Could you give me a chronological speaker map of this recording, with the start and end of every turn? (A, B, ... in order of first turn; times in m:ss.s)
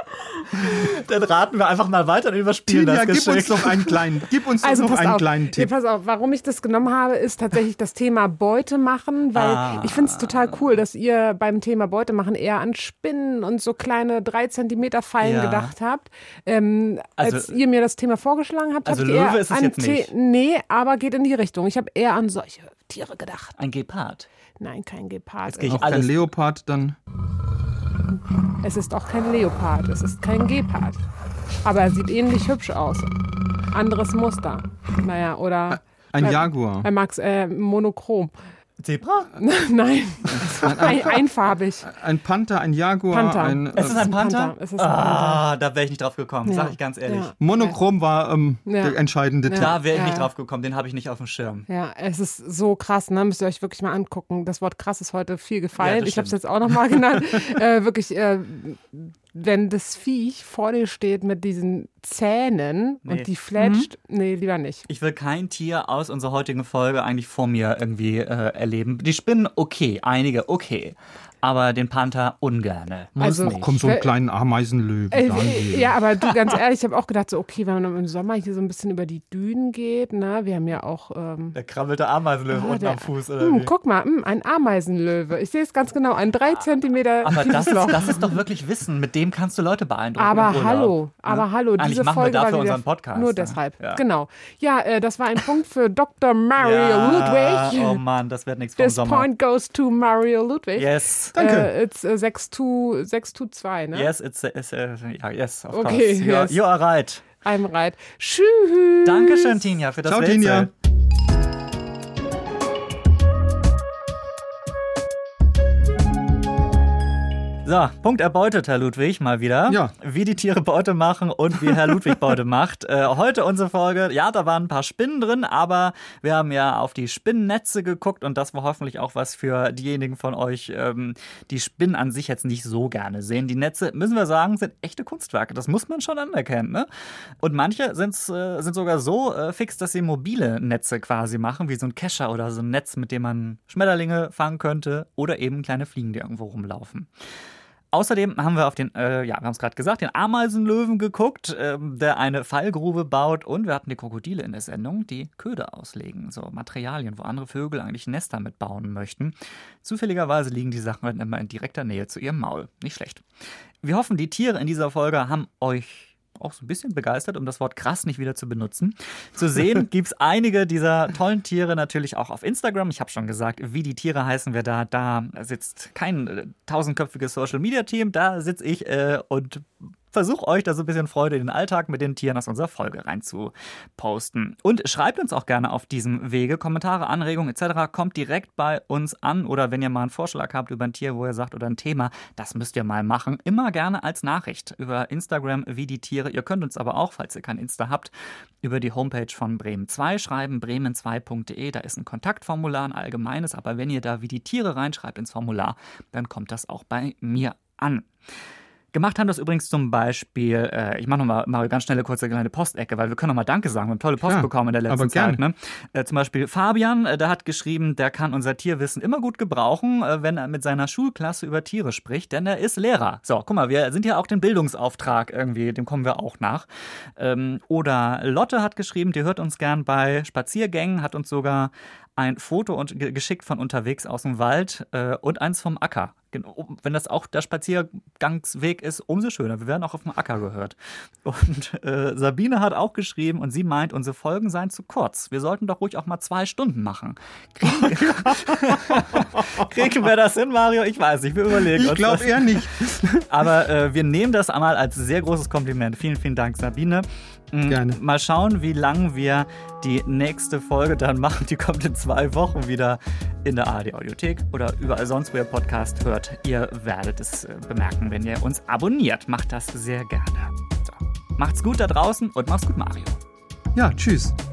0:00.4-0:04.0 A
0:02.7-0:05.7 B
0:04.6-0:23.6 C
0:09.3-0:10.6 A
0:15.2-0:15.7 A
0:17.2-0:17.6 A
0:18.8-0:20.1 A
0:23.6-0:24.3 A
0:24.6-0:25.9 C
0:25.4-0:26.2 A
0:25.7-0:27.0 B
0:28.6-0:31.0 C
0:31.6-0:33.2 C
0:33.7-0:38.3 C
0:35.7-0:36.9 B
0:38.8-0:39.4 A
0:39.4-0:41.9 C
0:40.3-0:41.3 B
0:41.8-0:44.1 B
0:43.1-0:45.4 C
0:43.7-0:47.3 A
0:46.4-0:47.8 C
0:47.4-0:49.7 B
0:48.6-0:50.3 C
0:49.5-0:51.6 A
0:51.7-1:04.9 C
0:55.8-0:56.8 A
1:03.0-1:03.9 A
1:04.9-1:13.9 A
1:13.2-1:14.1 C
1:13.4-1:16.0 B
1:15.1-1:21.6 C
1:21.5-1:23.7 A
1:22.5-1:28.4 C
1:27.2-1:34.0 A
1:30.2-1:38.0 C
1:36.6-1:39.3 A
1:38.8-1:44.1 C
1:40.8-1:41.4 A
1:41.4-1:41.7 B
1:43.9-1:47.2 A
1:45.7-1:46.6 C
1:47.4-1:49.6 C
1:49.0-1:50.7 A
1:50.0-1:50.7 B
1:57.6-2:16.9 A
1:59.7-1:59.9 B
2:17.4-2:27.1 A
2:27.9-2:43.2 A
2:43.8-3:28.1 A
3:28.9-4:12.7 A
3:34.2-3:35.4 B
4:07.8-4:09.6 B
4:11.7-4:13.2 B
4:13.3-4:33.2 A
4:17.7-4:18.0 B
4:33.7-4:34.4 B